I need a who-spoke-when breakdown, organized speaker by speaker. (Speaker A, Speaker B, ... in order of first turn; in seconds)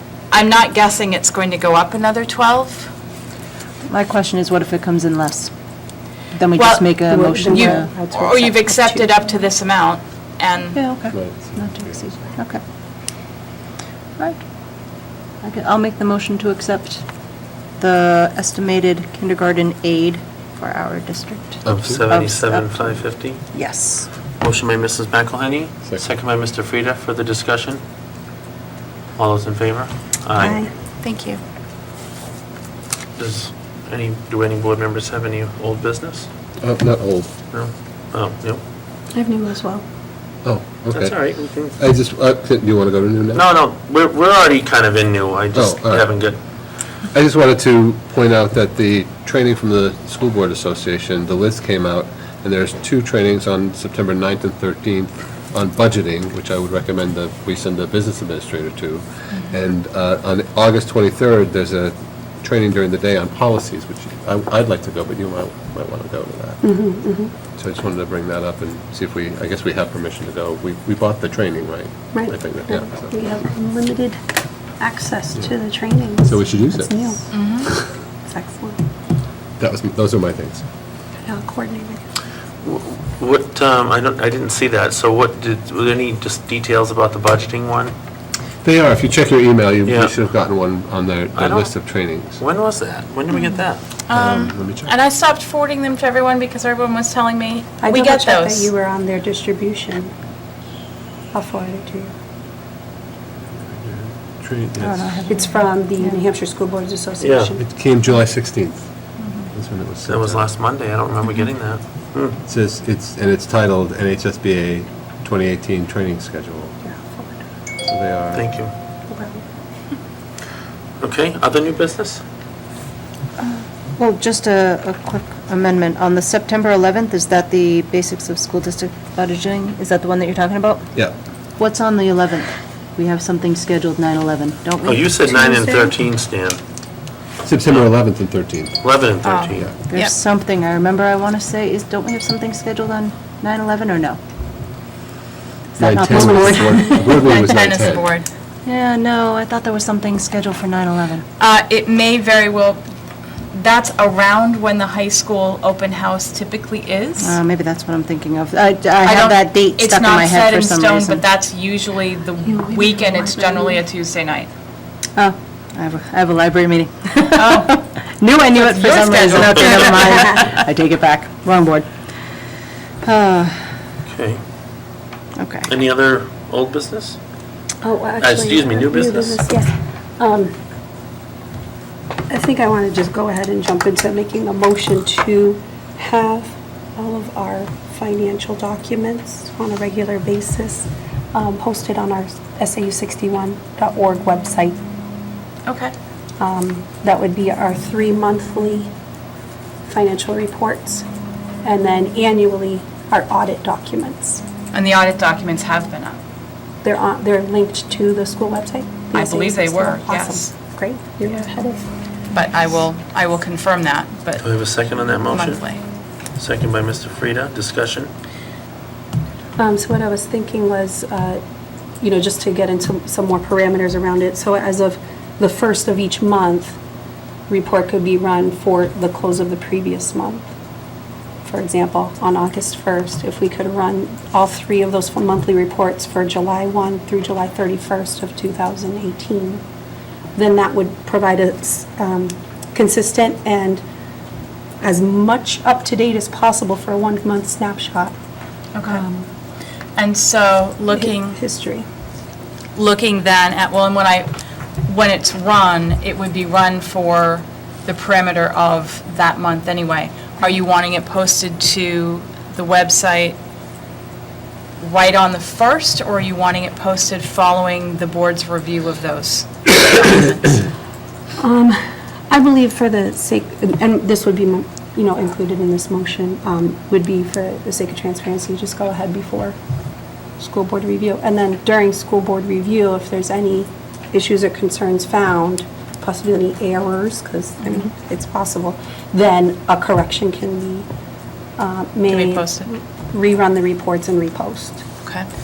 Speaker A: 0.3-2.9, 6.5-6.9, 7.5-10.8, 31.0-31.4, 77.3-77.7, 93.3-98.7, 139.2-140.2, 147.1-148.3, 151.4-152.8, 153.5-157.4, 159.0-164.5, 167.3-167.7, 168.5-170.4, 195.7-195.9, 204.7-206.2, 209.1-210.5, 212.3-214.5, 215.2-215.8, 248.7-249.0, 250.0-251.4, 252.8-254.3, 254.8-263.4, 264.8-270.6, 292.1-292.7
Speaker B: 3.9-5.5, 6.3-7.9, 10.7-12.6, 15.4-17.0, 17.8-23.0, 23.5-24.1, 104.8-106.2, 123.4-130.9, 131.6-135.1, 139.9-144.2, 145.8-147.2, 148.7-151.2, 157.2-161.2, 165.2-171.9, 173.0-173.8, 175.4-175.7
Speaker C: 7.1-9.2, 30.4-30.7, 39.1-39.8, 66.6-67.3, 72.1-74.2, 74.8-77.2, 78.2-78.8, 81.2-82.0, 97.8-100.1, 101.3-102.1, 105.3-107.6, 116.8-117.4, 119.1-119.4, 135.2-135.9, 162.5-163.8, 177.8-180.6, 182.3-194.8, 196.4-198.9, 199.9-201.1, 201.6-204.4, 206.8-211.9, 219.6-221.4, 222.0-226.8, 227.5-230.5, 231.4-239.6, 240.3-243.8, 244.8-248.1, 248.8-249.3, 250.9-251.9, 271.4-279.6, 280.4-290.9, 291.6-294.9
Speaker D: 11.1-12.2, 21.6-22.0, 36.6-37.3, 40.4-43.5, 45.5-46.1, 47.1-66.6, 67.6-73.2, 76.2-77.9, 79.6-80.6, 88.6-92.4, 94.1-94.9, 103.5-105.1, 107.6-108.8, 109.5-110.5, 112.5-116.8, 117.8-118.5, 137.4-138.8, 145.8-148.1
Speaker E: 21.7-23.4, 24.4-27.8, 29.2-30.6, 33.2-36.3, 37.5-38.6, 40.9-41.8, 43.3-46.4, 82.6-87.9, 89.9-90.1, 91.3-91.8, 92.4-93.8, 107.2-107.5, 110.1-112.4, 118.3-118.7, 121.0-122.2, 134.8-136.6, 138.8-139.7, 174.1-174.4, 175.7-177.2, 178.2-179.4, 214.4-215.6, 216.4-218.1